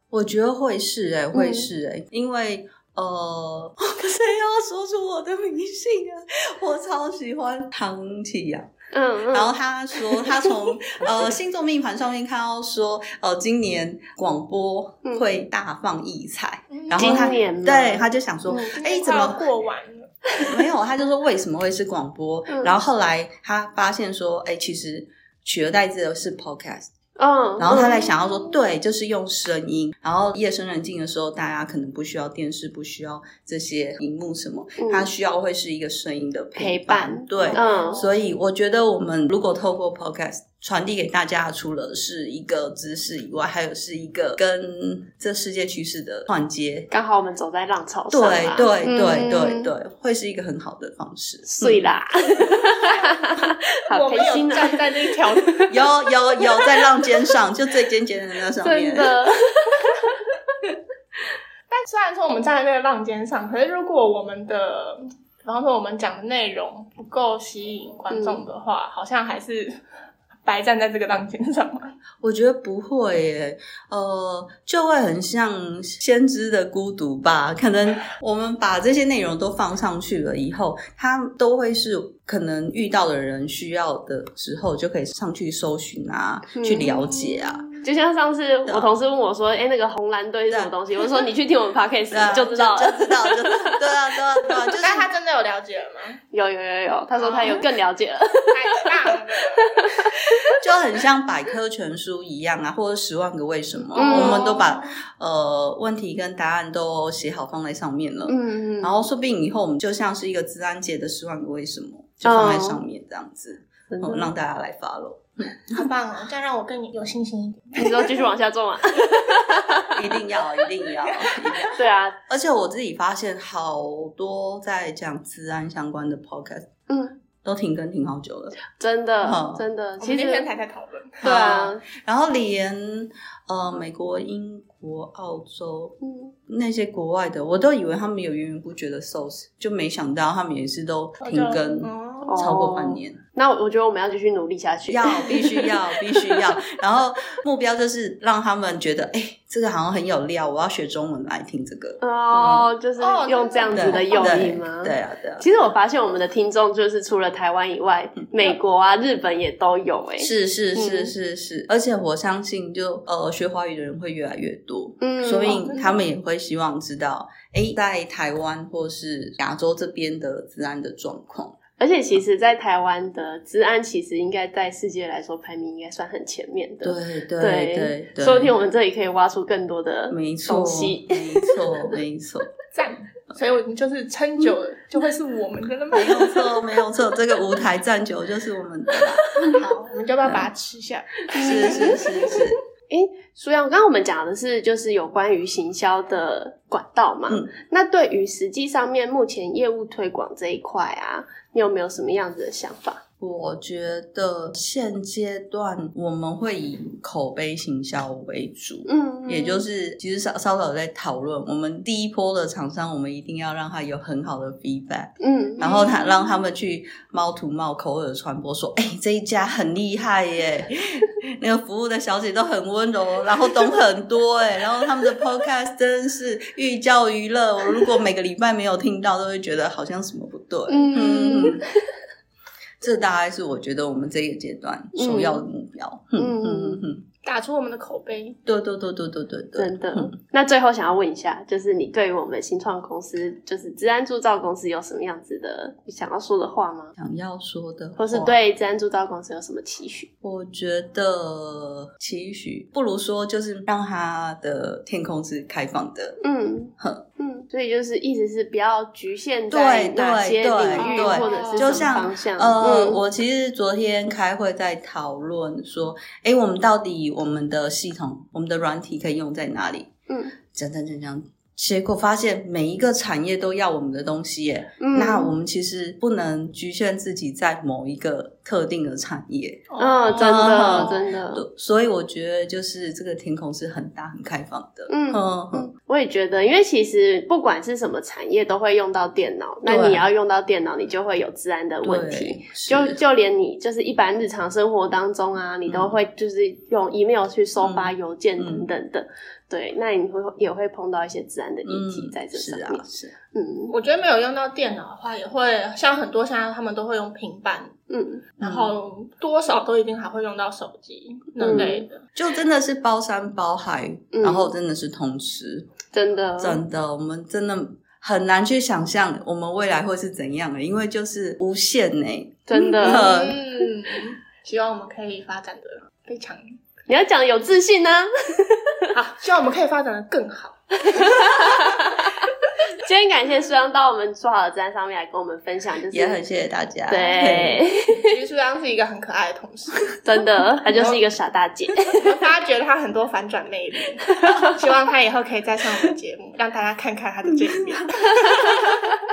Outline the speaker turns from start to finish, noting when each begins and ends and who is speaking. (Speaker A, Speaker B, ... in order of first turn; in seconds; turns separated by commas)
Speaker A: 0.1-8.7, Speaker B: 1.3-1.7, Speaker B: 8.9-10.5, Speaker A: 9.3-19.4, Speaker C: 16.7-17.4, Speaker B: 16.9-18.7, Speaker C: 18.5-20.2, Speaker A: 20.4-26.9, Speaker B: 22.5-22.8, Speaker B: 27.2-28.1, Speaker A: 27.6-46.9, Speaker C: 28.0-28.5, Speaker B: 34.8-35.1, Speaker B: 36.5-38.1, Speaker C: 37.4-38.2, Speaker B: 46.9-49.7, Speaker A: 48.1-51.9, Speaker B: 51.5-54.8, Speaker C: 53.9-55.8, Speaker A: 55.7-59.2, Speaker B: 58.6-60.2, Speaker C: 61.7-69.8, Speaker B: 68.1-68.4, Speaker C: 70.4-71.9, Speaker A: 72.2-87.7, Speaker B: 86.5-86.9, Speaker C: 86.8-87.6, Speaker B: 87.8-93.9, Speaker A: 88.7-88.9, Speaker A: 92.1-95.1, Speaker C: 94.8-96.2, Speaker B: 96.3-100.4, Speaker C: 97.2-97.6, Speaker C: 98.5-99.8, Speaker A: 100.6-115.9, Speaker C: 103.9-104.9, Speaker B: 103.9-104.5, Speaker B: 108.3-109.0, Speaker B: 112.2-112.8, Speaker B: 113.9-114.3, Speaker C: 115.7-118.3, Speaker B: 117.8-120.0, Speaker A: 119.9-126.7, Speaker C: 120.9-121.7, Speaker B: 121.8-122.2, Speaker B: 126.9-127.2, Speaker A: 127.4-128.6, Speaker B: 128.7-130.4, Speaker A: 129.2-129.7, Speaker C: 130.0-131.2, Speaker A: 131.2-135.9, Speaker B: 131.2-131.8, Speaker B: 136.0-136.3, Speaker A: 136.5-143.2, Speaker C: 141.2-142.4, Speaker B: 142.2-145.7, Speaker A: 144.9-152.7, Speaker B: 152.0-161.1, Speaker C: 153.0-154.6, Speaker A: 153.7-155.5, Speaker A: 160.2-171.6, Speaker B: 165.0-165.7, Speaker C: 165.4-165.9, Speaker B: 171.8-181.7, Speaker A: 176.8-178.5, Speaker A: 180.1-182.5, Speaker C: 182.8-186.6, Speaker A: 185.9-189.4, Speaker C: 189.5-192.1, Speaker B: 191.4-192.3, Speaker A: 191.4-192.6, Speaker B: 192.9-203.0, Speaker A: 203.2-231.6, Speaker B: 208.9-209.6, Speaker B: 215.2-215.9, Speaker C: 215.6-216.0, Speaker B: 230.7-231.6, Speaker A: 232.8-237.1, Speaker B: 234.9-235.4, Speaker B: 236.2-236.8, Speaker C: 237.2-238.4, Speaker A: 238.4-240.1, Speaker B: 239.6-246.9, Speaker A: 247.0-248.4, Speaker B: 248.0-250.1, Speaker A: 250.2-256.2, Speaker B: 256.2-263.0, Speaker A: 256.8-257.0, Speaker A: 259.5-269.9, Speaker C: 260.8-262.0, Speaker B: 270.1-270.4, Speaker A: 270.5-285.7, Speaker B: 274.8-275.4, Speaker C: 279.7-281.0, Speaker B: 279.8-281.4, Speaker B: 284.9-303.7, Speaker A: 289.6-290.1, Speaker A: 291.8-293.0, Speaker A: 295.6-295.9, Speaker A: 297.6-298.7, Speaker A: 301.6-303.1, Speaker C: 303.7-307.7, Speaker B: 307.9-308.2, Speaker C: 308.4-312.1, Speaker A: 308.4-308.7, Speaker B: 311.4-311.9, Speaker A: 311.4-315.7, Speaker B: 314.1-314.5, Speaker B: 315.9-316.6, Speaker A: 316.4-323.4, Speaker B: 322.5-323.1, Speaker C: 322.8-326.4, Speaker B: 326.9-328.9, Speaker C: 328.9-331.1, Speaker B: 330.8-332.2, Speaker B: 332.8-336.2, Speaker A: 335.9-337.6, Speaker B: 336.9-338.1, Speaker C: 337.9-340.0, Speaker B: 340.0-341.9, Speaker C: 340.6-341.0, Speaker C: 341.9-348.4